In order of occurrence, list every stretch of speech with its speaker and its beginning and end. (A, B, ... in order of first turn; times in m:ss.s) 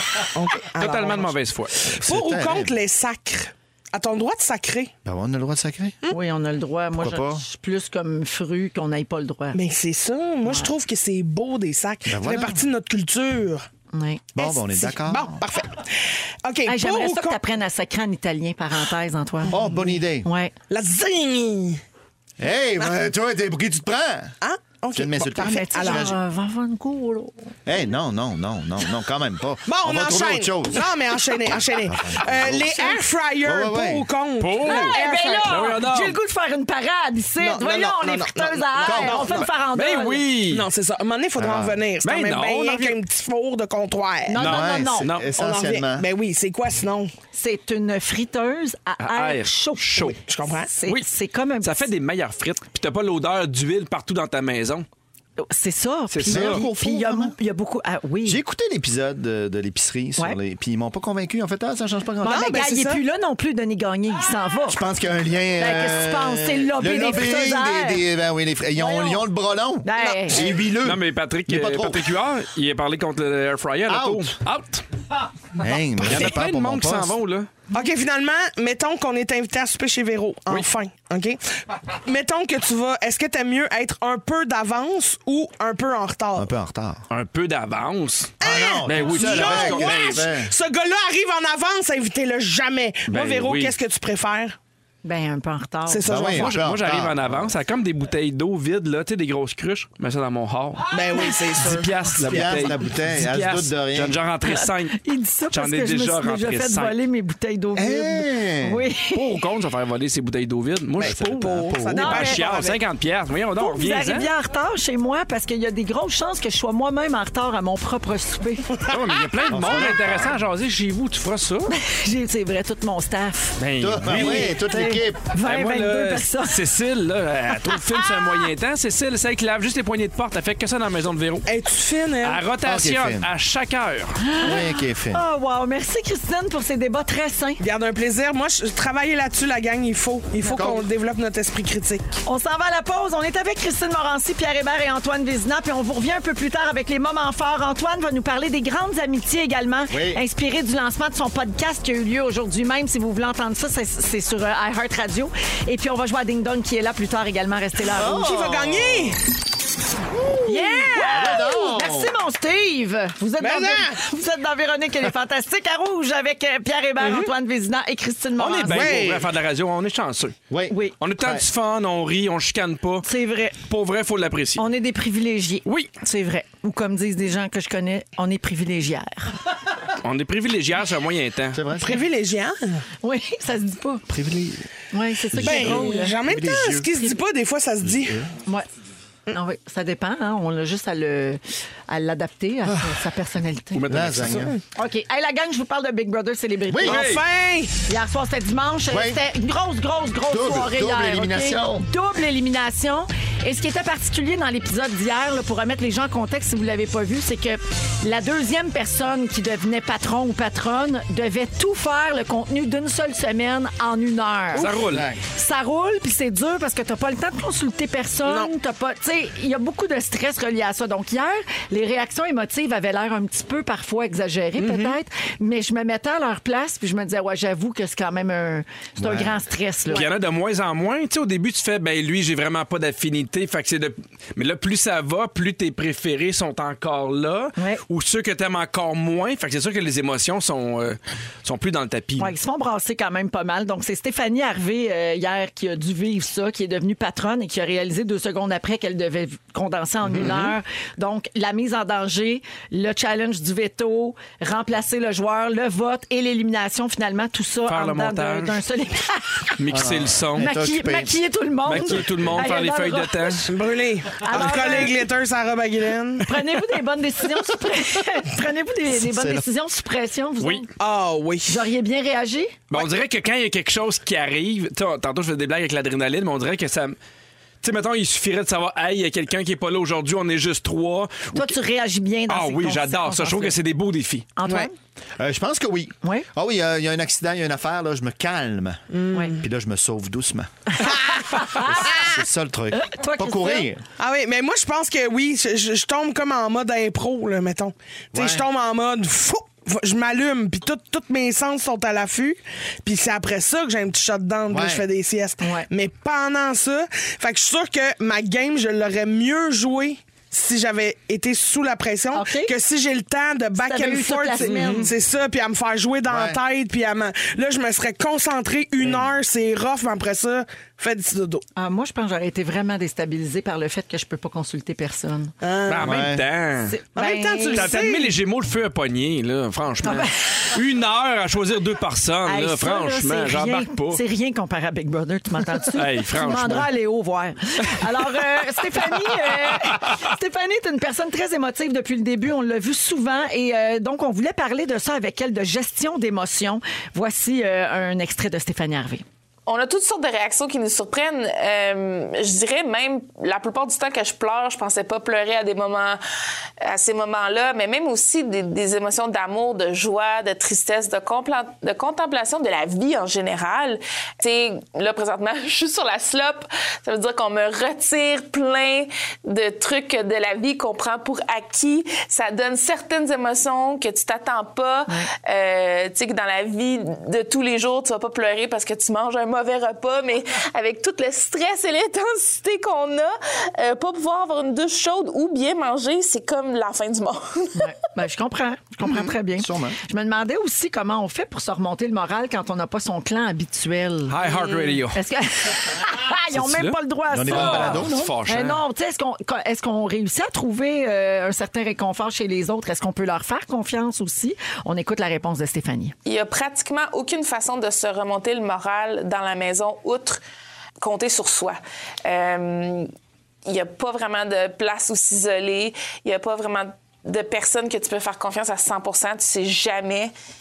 0:00.2-0:04.9 A
0:00.8-0:01.8 B
0:02.0-0:02.7 C
0:05.0-0:06.0 C
0:06.1-0:09.6 D
0:07.0-0:07.5 C
0:09.5-0:13.6 A
0:10.4-0:10.7 D
0:12.1-0:12.6 C
0:13.9-0:14.4 D
0:14.4-0:15.4 C
0:14.4-0:17.4 A
0:16.6-0:20.5 D
0:19.5-0:20.3 C
0:20.7-0:21.8 A
0:22.4-0:24.4 C
0:24.4-0:26.1 A
0:25.0-0:26.2 C
0:25.4-0:27.5 D
0:27.6-0:34.1 C
0:29.6-0:35.8 A
0:34.4-0:36.2 B
0:34.6-0:40.3 D
0:37.4-0:39.4 A
0:38.8-0:39.5 C
0:39.3-0:40.7 B
0:40.5-0:44.4 A
0:41.4-0:41.8 C
0:42.0-0:43.0 B
0:44.3-0:45.1 D
0:44.4-0:45.3 B
0:44.4-0:46.1 C
0:45.3-0:47.1 A
0:47.3-0:50.2 D
0:49.0-0:50.2 B
0:50.2-0:50.8 A
0:50.8-0:51.9 D
0:51.6-0:54.9 B
0:55.4-0:58.4 D
0:56.1-0:56.6 B
0:56.3-0:57.4 C
0:58.2-1:02.6 C
1:02.2-1:04.8 D
1:02.2-1:03.0 A
1:04.7-1:12.1 C
1:05.6-1:08.0 D
1:08.8-1:09.3 D
1:09.8-1:10.5 D
1:10.0-1:10.2 A
1:10.8-1:14.8 B
1:13.9-1:14.4 C
1:15.6-1:17.2 C
1:16.0-1:17.5 B
1:17.7-1:21.4 A
1:22.0-1:26.5 A
1:26.4-1:27.0 C
1:27.1-1:28.3 B
1:28.4-1:34.6 A
1:28.4-1:30.5 C
1:28.8-1:30.2 B
1:33.1-1:33.8 B
1:35.0-1:36.1 D
1:35.9-1:36.5 A
1:36.0-1:37.5 C
1:36.4-1:40.9 B
1:40.9-1:42.6 A
1:41.6-1:45.0 B
1:42.2-1:44.2 C
1:44.4-1:49.4 D
1:45.5-1:47.0 B
1:47.7-1:48.8 C
1:49.1-1:54.3 B
1:51.0-1:52.5 D
1:51.0-1:52.0 C
1:51.0-1:52.8 A
1:53.6-1:58.8 D
1:58.9-2:01.7 B
1:59.5-2:00.4 C
2:01.7-2:03.6 D
2:03.6-2:04.5 B
2:03.8-2:05.3 C
2:04.1-2:06.6 D
2:05.4-2:11.5 B
2:07.5-2:08.4 D
2:11.5-2:12.4 A
2:12.2-2:14.2 B
2:12.6-2:13.3 C
2:14.2-2:17.6 D
2:14.4-2:15.2 C
2:17.6-2:22.2 A
2:20.4-2:20.8 D
2:22.2-2:38.3 D
2:29.9-2:30.2 C
2:38.0-2:39.2 C
2:38.0-2:39.2 A
2:40.1-2:42.2 C
2:40.5-2:49.0 D
2:43.4-2:44.0 A
2:47.0-2:47.3 B
2:48.4-2:50.4 B
2:48.7-2:49.3 A
2:50.5-2:51.4 C
2:50.7-2:51.0 D
2:51.0-2:53.1 B
2:53.0-2:53.6 D
2:53.6-2:54.6 B
2:54.6-2:59.4 D
2:55.7-2:55.9 B
3:00.0-3:01.6 B
3:01.5-3:02.0 C
3:01.8-3:02.8 A
3:03.0-3:04.0 D
3:04.1-3:04.7 C
3:04.9-3:06.3 D
3:05.3-3:06.9 C
3:05.4-3:08.2 A
3:07.8-3:08.3 C
3:09.3-3:13.9 D
3:12.7-3:13.0 C
3:13.7-3:14.5 B
3:13.9-3:14.5 C
3:14.3-3:14.6 A
3:14.7-3:17.1 D
3:16.7-3:17.0 C
3:16.8-3:17.2 B
3:16.8-3:17.7 A
3:17.8-3:50.1 D
3:18.9-3:19.2 C
3:20.3-3:21.9 C
3:34.6-3:35.1 B
3:34.9-3:35.2 C
3:38.3-3:38.5 A
3:44.6-3:45.0 B
3:49.0-3:49.4 C
3:49.9-4:02.3 B
3:57.6-3:57.8 D
4:02.2-4:19.5 D
4:10.0-4:10.5 C
4:10.2-4:10.5 B
4:17.7-4:18.6 B
4:19.6-4:20.5 B
4:19.7-4:21.2 C
4:20.4-4:23.4 D
4:21.7-4:23.5 B
4:21.7-4:22.1 C
4:23.4-4:26.4 A
4:24.2-4:25.0 D
4:24.3-4:24.9 B
4:26.2-4:30.7 D
4:28.9-4:29.5 C
4:30.4-4:30.6 B
4:30.8-4:31.6 A
4:31.4-4:32.6 D
4:32.7-4:37.0 B
4:37.6-4:41.5 B
4:41.3-4:43.6 D
4:42.3-4:44.3 B
4:44.4-4:44.7 D
4:45.2-4:48.8 C
4:48.9-4:49.4 A
4:49.4-4:50.5 C
4:50.8-4:52.2 D
4:51.6-4:53.8 C
4:52.7-4:53.7 D
4:54.0-5:21.4 A
4:58.1-4:58.4 C
5:04.5-5:04.8 C
5:05.4-5:05.7 D
5:12.1-5:12.6 D
5:13.6-5:15.0 D
5:14.4-5:14.9 B
5:16.1-5:16.4 C
5:21.6-5:25.3 D
5:25.4-5:26.1 A
5:25.7-5:26.8 B
5:25.8-5:26.2 C
5:26.6-5:27.8 D
5:27.0-5:28.1 A
5:27.5-5:34.0 B
5:29.8-5:30.3 D
5:32.3-5:49.0 D
5:35.6-5:36.7 B
5:38.9-5:39.9 B
5:49.5-5:56.0 E
5:56.6-6:27.7 E
6:27.6-6:34.3 D
6:28.8-6:29.8 C
6:34.1-6:35.0 B
6:34.3-6:34.8 A
6:34.9-6:46.0 D
6:36.3-6:38.6 B
6:37.1-6:38.1 C
6:46.0-6:50.2 E
6:50.8-6:52.9 E
6:53.5-7:00.1 E